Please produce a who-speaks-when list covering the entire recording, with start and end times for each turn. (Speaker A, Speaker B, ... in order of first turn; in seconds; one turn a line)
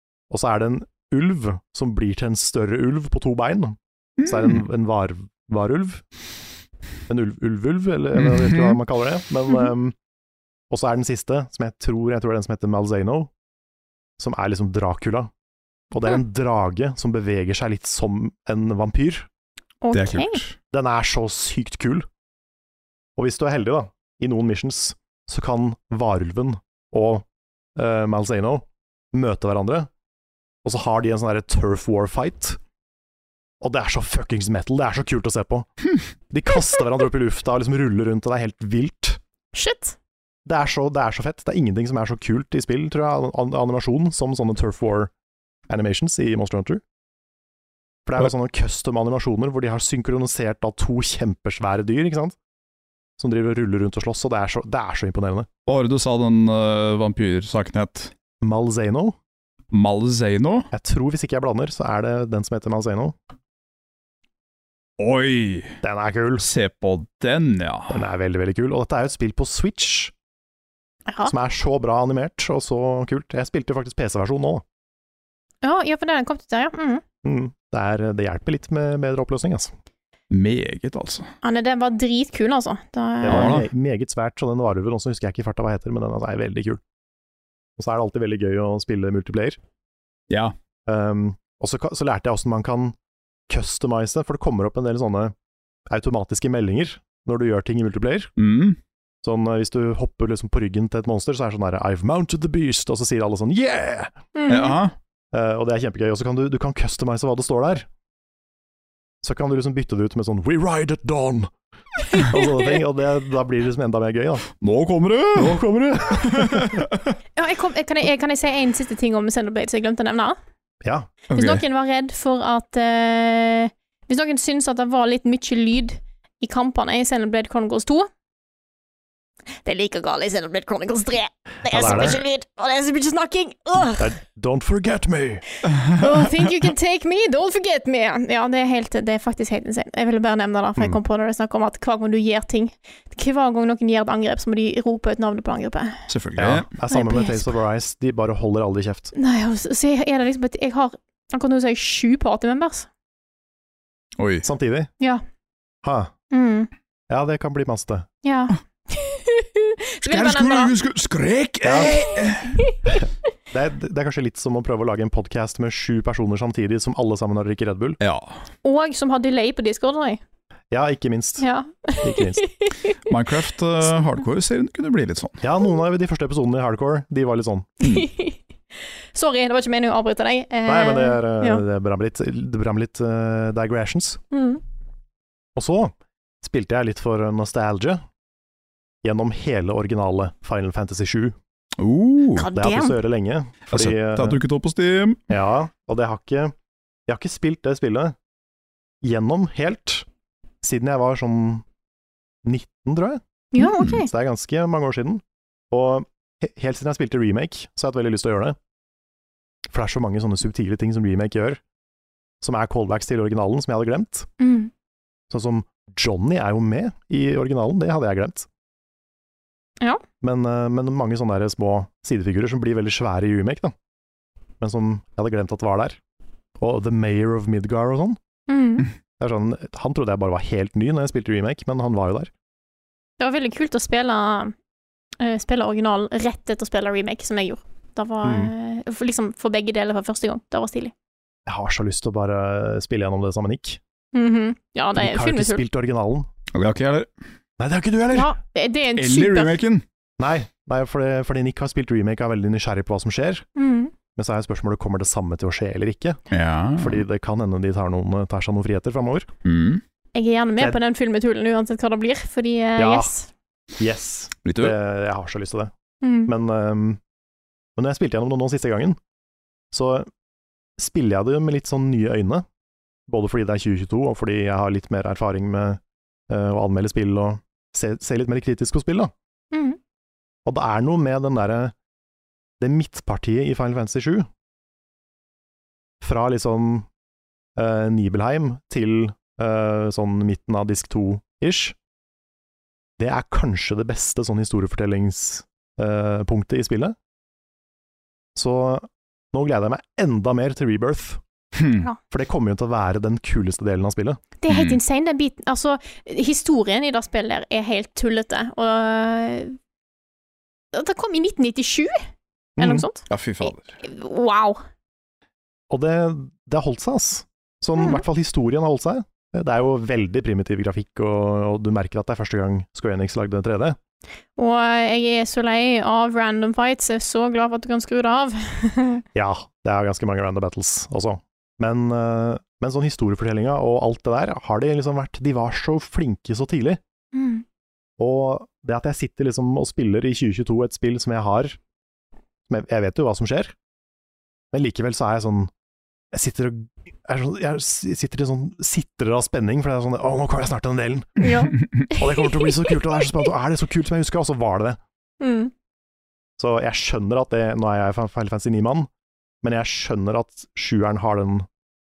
Speaker A: 0.3-6.0
Speaker B: 4.2-4.6
Speaker A: 7.1-9.9
Speaker B: 8.2-8.8
Speaker A: 10.7-13.3
Speaker A: 14.2-15.3
Speaker A: 15.9-19.3
Speaker C: 19.8-20.4
Speaker B: 19.9-20.6
Speaker A: 20.7-22.1
Speaker A: 23.2-27.2
Speaker A: 27.8-29.9
Speaker A: 30.6-32.6
Speaker A: 33.6-35.7
Speaker A: 36.3-39.2
Speaker C: 39.5-40.0
Speaker A: 40.5-45.1
Speaker A: 45.7-46.8
Speaker A: 48.1-52.4
Speaker A: 53.2-55.5
Speaker B: 55.7-58.1
Speaker A: 58.4-59.2
Speaker B: 59.7-60.7
Speaker A: 60.7-63.1
Speaker B: 65.0-65.8
Speaker A: 65.8-66.5
Speaker B: 66.4-68.0
Speaker A: 67.9-70.1
Speaker C: 71.1-71.3
Speaker A: 71.3-74.6
Speaker C: 75.6-77.0
Speaker A: 77.2-79.7
Speaker B: 80.3-81.3
Speaker C: 81.4-83.5
Speaker A: 83.2-86.8
Speaker B: 83.3-83.7
Speaker A: 87.8-89.6
Speaker A: 90.9-93.0
Speaker A: 93.5-95.3
Speaker A: 95.9-98.3
Speaker B: 98.4-98.8
Speaker A: 99.2-104.2
Speaker C: 104.3-104.8
Speaker B: 104.5-104.9
Speaker A: 105.3-107.9
Speaker A: 109.2-111.5
Speaker C: 112.1-112.5
Speaker A: 112.2-114.5
Speaker B: 114.6-115.6
Speaker A: 115.3-116.8
Speaker B: 116.1-117.1
Speaker C: 117.4-120.4
Speaker A: 120.8-121.1
Speaker B: 121.3-121.6
Speaker C: 121.3-128.1
Speaker C: 129.7-134.1
Speaker A: 131.7-132.2
Speaker A: 134.0-135.4
Speaker C: 135.9-146.0
Speaker B: 146.1-146.7
Speaker A: 146.4-149.1
Speaker C: 146.9-147.5
Speaker C: 149.1-152.9
Speaker B: 154.2-154.4
Speaker A: 154.4-154.9
Speaker A: 155.8-156.1
Speaker C: 156.3-156.7
Speaker A: 157.1-158.1
Speaker C: 158.2-160.7
Speaker B: 160.1-162.6
Speaker A: 161.6-162.0
Speaker A: 163.5-168.0
Speaker B: 168.0-168.4
Speaker C: 168.6-170.2
Speaker A: 170.7-171.5
Speaker C: 171.4-172.9
Speaker A: 172.0-172.4
Speaker B: 173.1-175.4
Speaker A: 175.4-177.7
Speaker C: 177.8-178.4
Speaker C: 179.1-181.6
Speaker A: 180.7-184.2
Speaker C: 184.3-184.6
Speaker A: 185.6-188.0
Speaker A: 189.0-191.4
Speaker B: 191.8-192.5
Speaker C: 192.4-193.0
Speaker A: 192.5-194.4
Speaker B: 193.7-195.2
Speaker A: 195.3-196.5
Speaker A: 197.1-198.2
Speaker A: 199.0-200.1
Speaker A: 200.6-201.7
Speaker A: 202.4-208.6
Speaker C: 203.5-204.1
Speaker A: 209.7-211.6
Speaker A: 212.4-214.3
Speaker C: 214.4-214.7
Speaker A: 215.3-218.5
Speaker A: 220.2-223.7
Speaker A: 224.6-226.0
Speaker A: 226.6-228.2
Speaker C: 228.5-228.9
Speaker A: 229.2-232.3
Speaker C: 233.2-234.5
Speaker C: 235.2-240.9
Speaker A: 238.2-238.5
Speaker A: 241.5-243.8
Speaker C: 244.1-245.6
Speaker A: 244.9-246.3
Speaker B: 246.5-247.1
Speaker A: 247.6-248.3
Speaker C: 248.1-249.6
Speaker B: 249.0-249.8
Speaker A: 250.2-253.5
Speaker C: 253.6-253.9
Speaker A: 254.2-256.2
Speaker B: 256.3-257.0
Speaker A: 256.8-259.3
Speaker B: 259.4-259.8
Speaker C: 260.1-263.3
Speaker A: 262.8-263.1
Speaker A: 263.8-265.7
Speaker B: 264.4-264.8
Speaker C: 266.0-266.3
Speaker A: 266.3-267.0
Speaker A: 267.8-269.0
Speaker A: 269.7-270.1
Speaker A: 270.8-272.4
Speaker A: 273.1-279.1
Speaker C: 279.5-279.8
Speaker A: 280.5-281.7
Speaker A: 282.6-284.3
Speaker A: 286.0-286.9
Speaker A: 287.6-291.8
Speaker A: 293.0-297.0
Speaker A: 298.4-301.2
Speaker B: 301.6-301.8
Speaker A: 302.1-304.2
Speaker C: 304.4-309.6
Speaker B: 304.5-304.8
Speaker C: 310.7-312.0
Speaker A: 312.6-312.9
Speaker C: 312.6-314.6
Speaker B: 313.1-313.8
Speaker A: 315.7-323.8
Speaker C: 317.8-318.0
Speaker C: 324.4-329.0
Speaker A: 329.1-336.8
Speaker C: 337.1-337.4
Speaker A: 338.0-341.6
Speaker A: 342.5-343.5
Speaker A: 344.5-345.5
Speaker A: 346.1-351.4
Speaker C: 351.2-352.8
Speaker A: 351.9-354.8
Speaker C: 355.2-355.5
Speaker A: 356.4-358.9
Speaker A: 359.4-361.5